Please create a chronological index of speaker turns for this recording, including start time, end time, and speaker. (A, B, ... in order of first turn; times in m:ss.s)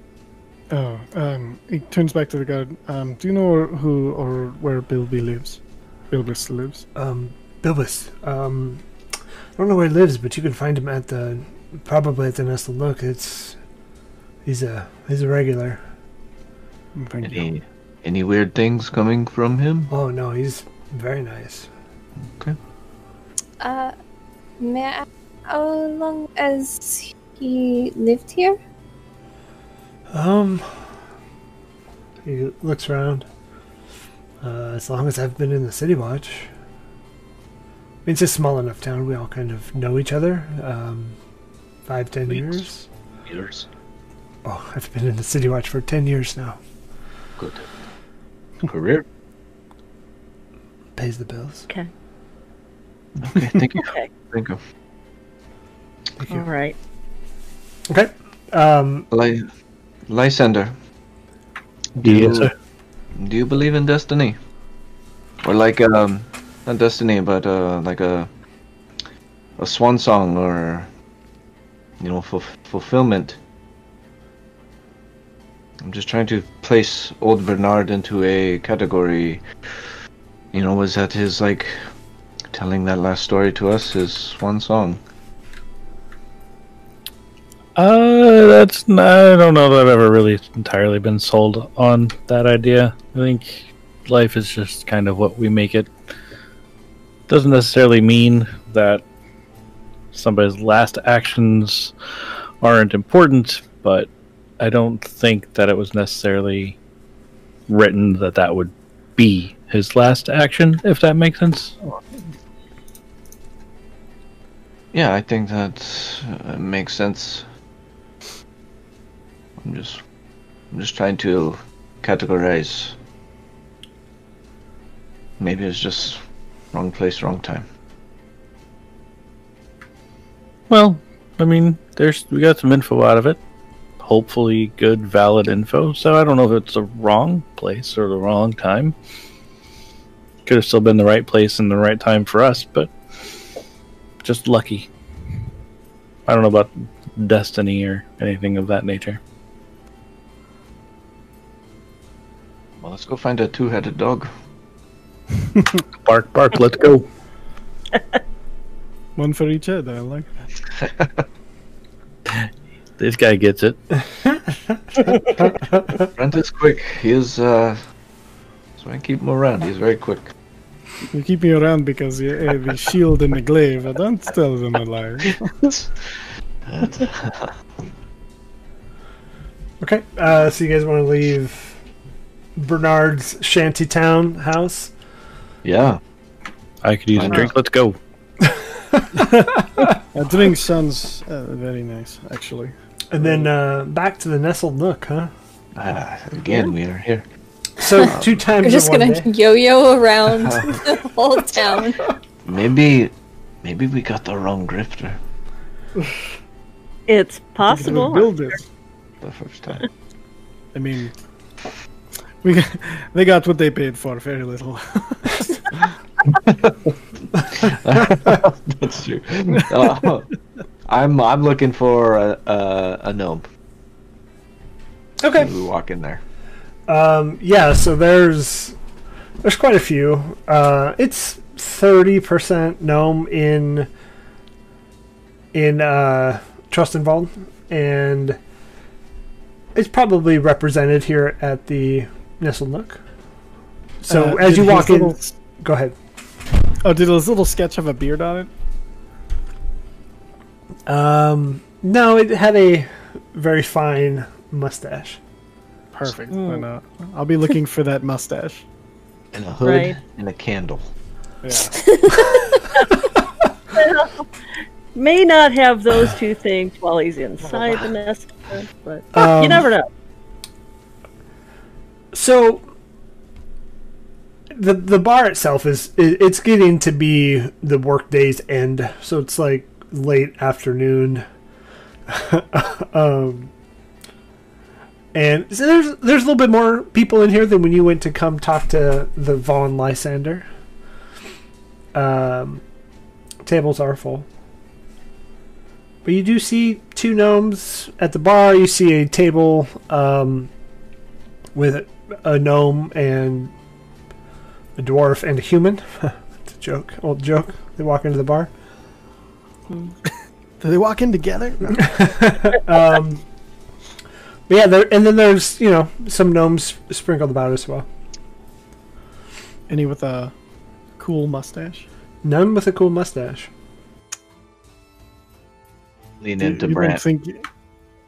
0:00.7-0:06.8 A
0:07.0-0:08.8 B
0:09.6-0:13.6 B
0:14.4-0:15.8 B
0:17.0-0:17.5 A
0:17.2-0:19.9 C
0:19.9-0:21.7 B
0:22.3-0:22.6 C
0:23.6-0:23.9 D
0:24.6-0:28.6 D
0:30.1-0:30.9 B
0:32.2-0:33.2 B
0:34.4-0:36.5 B
0:38.0-0:41.2 B
0:41.8-0:42.9 B
0:42.3-0:42.6 C
0:43.3-0:43.6 C
0:44.4-0:46.6 B
0:47.4-0:47.6 C
0:48.6-0:49.0 C
0:51.0-0:51.7 B
0:53.1-0:54.6 C
0:53.7-0:54.1 E
0:56.3-0:56.7 E
0:57.9-0:59.1 B
0:59.1-0:59.5 C
1:00.1-1:00.7 C
1:01.9-1:02.5 C
1:02.0-1:02.5 F
1:03.1-1:04.4 C
1:05.4-1:08.3 C
1:09.6-1:10.9 C
1:12.0-1:13.4 C
1:15.8-1:19.4 C
1:20.5-1:21.8 C
1:22.5-1:25.0 C
1:27.8-1:35.9 F
1:37.3-1:39.0 F
1:40.1-1:42.0 F
1:42.6-1:46.8 F
1:47.7-1:51.7 F
1:54.9-1:57.5 C
1:59.6-2:00.0 C
2:00.7-2:02.9 C
2:05.4-2:06.2 C
2:06.7-2:07.6 C
2:10.7-2:13.4 F
2:14.0-2:18.9 F
2:20.4-2:22.9 F
2:24.2-2:24.9 F
2:26.3-2:29.2 F
2:32.8-2:34.3 C
2:36.0-2:37.1 F
2:39.2-2:40.5 A
2:40.8-2:41.2 C
2:43.0-2:43.8 F
2:44.2-2:44.8 B
2:45.4-2:45.9 B
2:46.0-2:47.8 C
2:48.8-2:50.3 C
2:51.1-2:55.7 A
2:55.6-2:57.5 C
2:59.8-3:01.8 B
3:02.6-3:04.9 B
3:05.6-3:06.0 C
3:06.8-3:08.0 F
3:07.1-3:07.5 C
3:08.9-3:09.9 B
3:10.1-3:13.5 A
3:13.1-3:15.3 B
3:15.8-3:17.2 C
3:17.8-3:19.3 B
3:18.0-3:18.4 C
3:18.6-3:22.1 D
3:20.4-3:20.8 C
3:22.4-3:25.2 C
3:27.1-3:28.5 E
3:27.6-3:28.6 A
3:29.2-3:29.8 C
3:30.7-3:31.1 A
3:32.4-3:35.8 A
3:36.3-3:36.9 C
3:37.5-3:40.3 C
3:39.5-3:40.1 A
3:40.8-3:43.4 C
3:45.2-3:45.5 B
3:45.3-3:46.2 C
3:46.9-3:48.8 B
3:49.4-3:53.9 B
3:55.5-3:58.4 B
3:59.7-4:03.0 B
4:04.0-4:05.9 B
4:04.1-4:05.3 A
4:06.8-4:08.5 A
4:10.9-4:15.2 B
4:15.9-4:18.6 A
4:16.3-4:16.7 E
4:19.3-4:20.9 C
4:19.6-4:20.0 E
4:21.4-4:21.7 A
4:21.7-4:22.6 D
4:23.7-4:24.3 E
4:24.9-4:29.9 E
4:29.1-4:29.6 B
4:32.1-4:32.6 B
4:34.5-4:41.2 B
4:42.1-4:43.5 B
4:45.1-4:50.4 B
4:51.9-4:52.6 B
4:53.4-4:54.3 B
4:56.0-5:00.5 B
5:01.5-5:03.5 B
5:04.8-5:08.5 B
5:09.7-5:09.9 E
5:10.6-5:12.2 A
5:11.8-5:13.2 B
5:14.5-5:17.9 B
5:19.7-5:20.3 A
5:21.0-5:21.8 A
5:22.2-5:23.5 B
5:26.2-5:27.0 C
5:26.4-5:27.4 A